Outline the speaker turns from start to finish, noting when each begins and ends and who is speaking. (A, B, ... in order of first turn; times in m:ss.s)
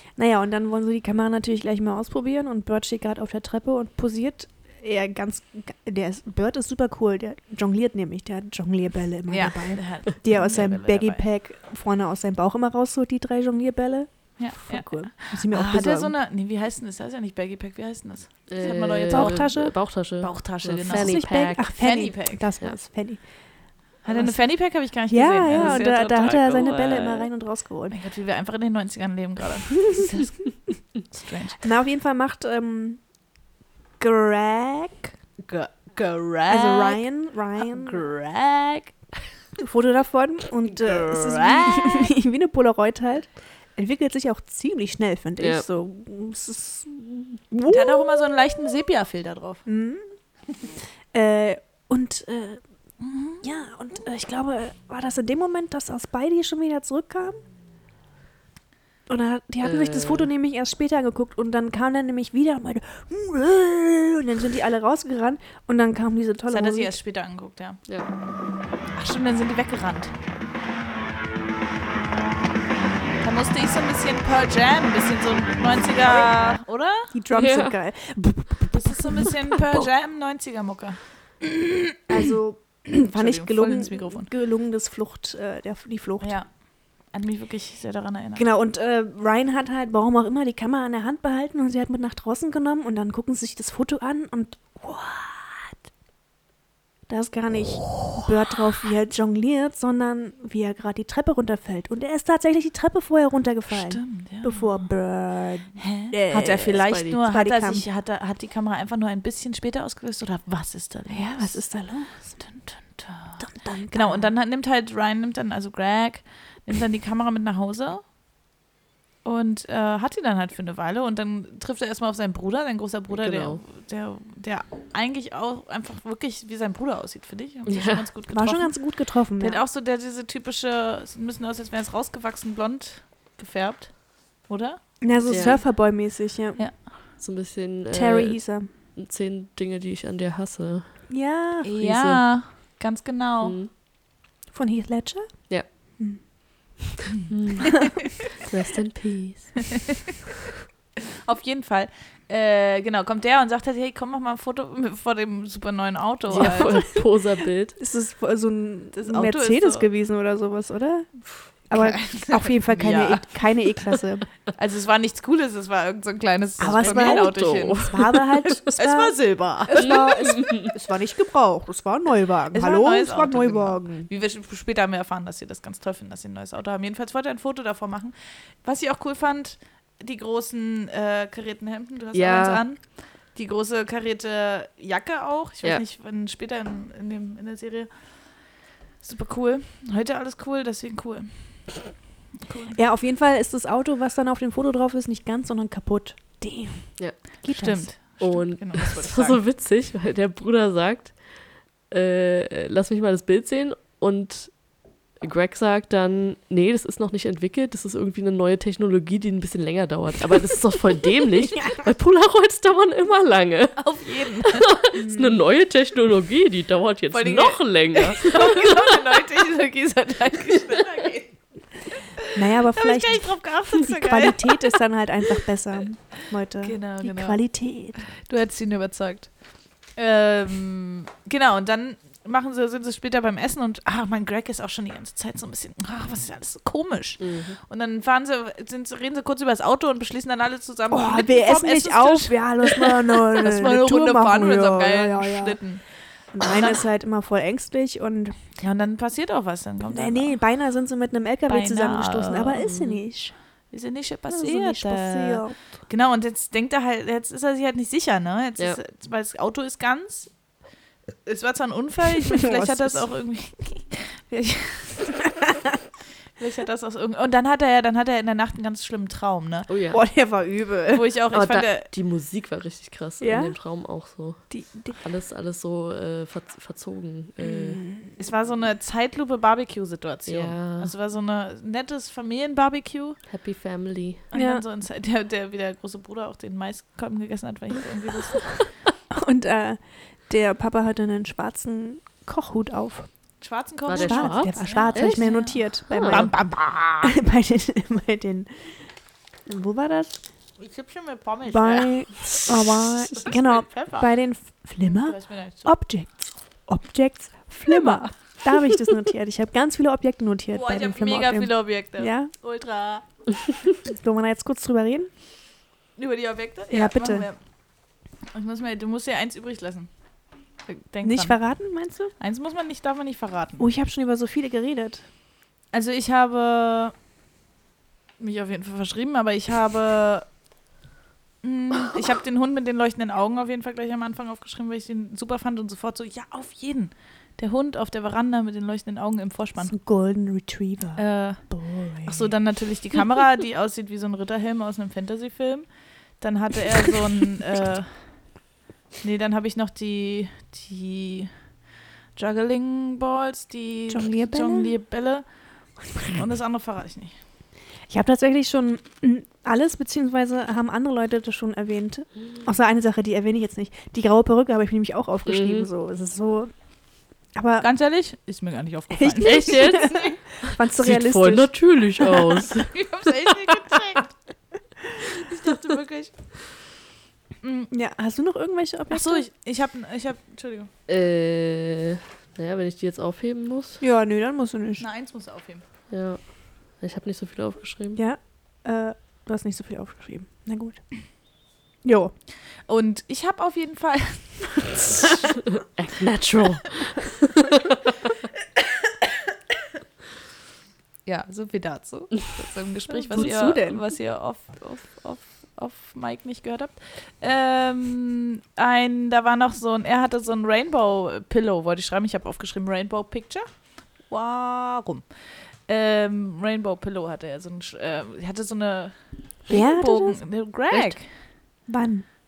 0:00.2-0:16.1 A
0:09.3-0:11.2 B
0:14.4-0:22.5 B
0:18.5-0:22.0 C
0:18.6-0:19.7 A
0:20.9-0:23.2 A
0:24.0-0:28.0 A
0:24.0-0:27.3 B
0:25.5-0:25.8 C
0:27.9-0:31.6 B
0:31.6-0:33.0 A
0:34.0-0:35.1 A
0:35.4-0:37.0 B
0:36.5-0:38.0 A
0:37.6-0:39.0 B
0:39.6-0:48.2 A
0:40.7-0:42.1 B
0:45.4-0:45.6 C
0:47.7-0:49.6 B
0:49.6-0:50.1 A
0:51.1-0:52.6 A
0:53.0-0:53.4 B
0:53.4-0:57.4 A
0:59.1-1:06.9 A
0:59.6-1:00.3 C
1:06.5-1:07.8 B
1:08.9-1:10.1 B
1:13.2-1:17.1 B
1:17.1-1:19.9 A
1:17.3-1:17.7 C
1:18.7-1:22.0 B
1:22.1-1:26.4 A
1:22.9-1:24.3 B
1:26.2-1:28.5 B
1:28.4-1:35.7 A
1:37.1-1:47.8 A
1:43.7-1:44.9 B
1:45.8-1:51.6 B
1:46.8-1:47.2 C
1:51.1-1:52.4 A
1:52.4-1:58.0 B
1:53.4-1:54.3 A
1:59.2-2:15.6 B
2:03.1-2:03.6 C
2:07.7-2:08.0 C
2:08.3-2:09.6 A
2:15.0-2:16.6 A
2:15.3-2:15.6 C
2:16.6-2:16.8 B
2:17.2-2:21.1 C
2:17.9-2:18.7 A
2:21.1-2:21.7 A
2:21.6-2:23.6 B
2:21.8-2:22.3 C
2:23.4-2:23.7 C
2:24.5-2:26.8 A
2:27.3-2:29.7 C
2:31.2-2:36.8 B
2:36.3-2:37.8 C
2:36.3-2:36.8 A
2:37.8-2:44.3 A
2:39.0-2:39.9 B
2:41.7-2:43.3 B
2:44.6-2:47.9 B
2:46.6-2:54.1 A
2:46.6-2:48.2 C
2:48.7-2:50.0 B
2:49.8-2:50.7 C
2:52.5-3:08.1 B
3:02.1-3:02.6 C
3:09.0-3:11.7 B
3:12.4-3:12.8 B
3:12.7-3:17.9 A
3:17.5-3:19.4 B
3:18.0-3:21.2 C
3:21.9-3:24.6 C
3:25.2-3:38.6 C
3:33.8-3:34.7 B
3:34.9-3:35.4 A
3:37.1-3:41.4 B
3:42.3-3:48.0 A
3:42.7-3:44.8 B
3:46.6-3:47.4 B
3:48.2-3:49.3 B
3:49.9-4:05.8 B
3:57.2-3:57.6 C
4:00.9-4:05.6 A
4:06.3-4:08.4 A
4:06.4-4:06.8 B
4:08.6-4:10.4 B
4:09.9-4:13.3 A
4:11.5-4:12.7 B
4:13.7-4:20.3 B
4:14.3-4:15.8 A
4:21.2-4:25.3 B
4:22.3-4:23.1 A
4:26.4-4:29.7 B
4:29.7-4:30.0 C
4:29.9-4:31.1 A
4:30.9-4:31.9 B
4:31.3-4:37.8 C
4:33.2-4:33.6 A
4:34.5-4:35.0 A
4:37.4-4:38.2 A
4:38.2-4:43.2 B
4:40.3-4:40.9 C
4:43.3-4:44.2 C
4:44.3-4:48.6 B
4:44.3-4:44.6 A
4:49.1-4:53.1 A
4:53.4-4:57.1 B
4:53.9-4:56.3 C
4:53.9-4:56.4 A
4:57.0-4:58.8 A
4:59.4-5:00.2 A
5:00.6-5:02.4 B
5:01.5-5:12.3 A
5:03.1-5:04.1 B
5:04.8-5:05.7 B
5:07.7-5:08.1 B
5:10.5-5:13.0 B
5:13.8-5:15.1 A
5:16.0-5:17.4 B
5:16.7-5:17.3 A
5:18.3-5:19.9 B
5:20.7-5:21.4 B
5:21.0-5:22.1 A
5:22.2-5:23.6 B
5:23.6-5:25.1 A
5:25.7-5:26.9 B
5:28.2-5:30.3 B
5:31.4-5:39.7 B
5:39.6-5:42.3 A
5:41.0-5:41.5 B
5:42.0-5:48.1 B
5:49.0-5:51.3 B
5:52.1-5:55.3 B
5:53.9-5:54.7 A
5:55.9-5:57.2 B
5:57.9-6:06.5 A
6:05.3-6:05.7 C
6:07.3-6:07.7 A
6:07.6-6:09.9 B
6:08.9-6:12.4 A
6:09.2-6:12.8 C
6:12.7-6:14.1 B
6:15.0-6:16.2 B
6:17.4-6:17.7 B
6:17.7-6:19.2 A
6:18.9-6:20.7 B
6:20.9-6:23.8 C
6:23.8-6:24.8 A
6:24.8-6:25.6 B
6:25.9-6:28.0 C
6:28.0-6:30.9 A
6:31.8-6:32.1 A
6:32.7-6:35.3 B
6:35.6-6:37.8 C
6:41.0-7:01.1 B
6:42.9-6:43.8 A
6:59.5-7:00.3 A
7:00.7-7:01.0 C
7:01.7-7:02.1 A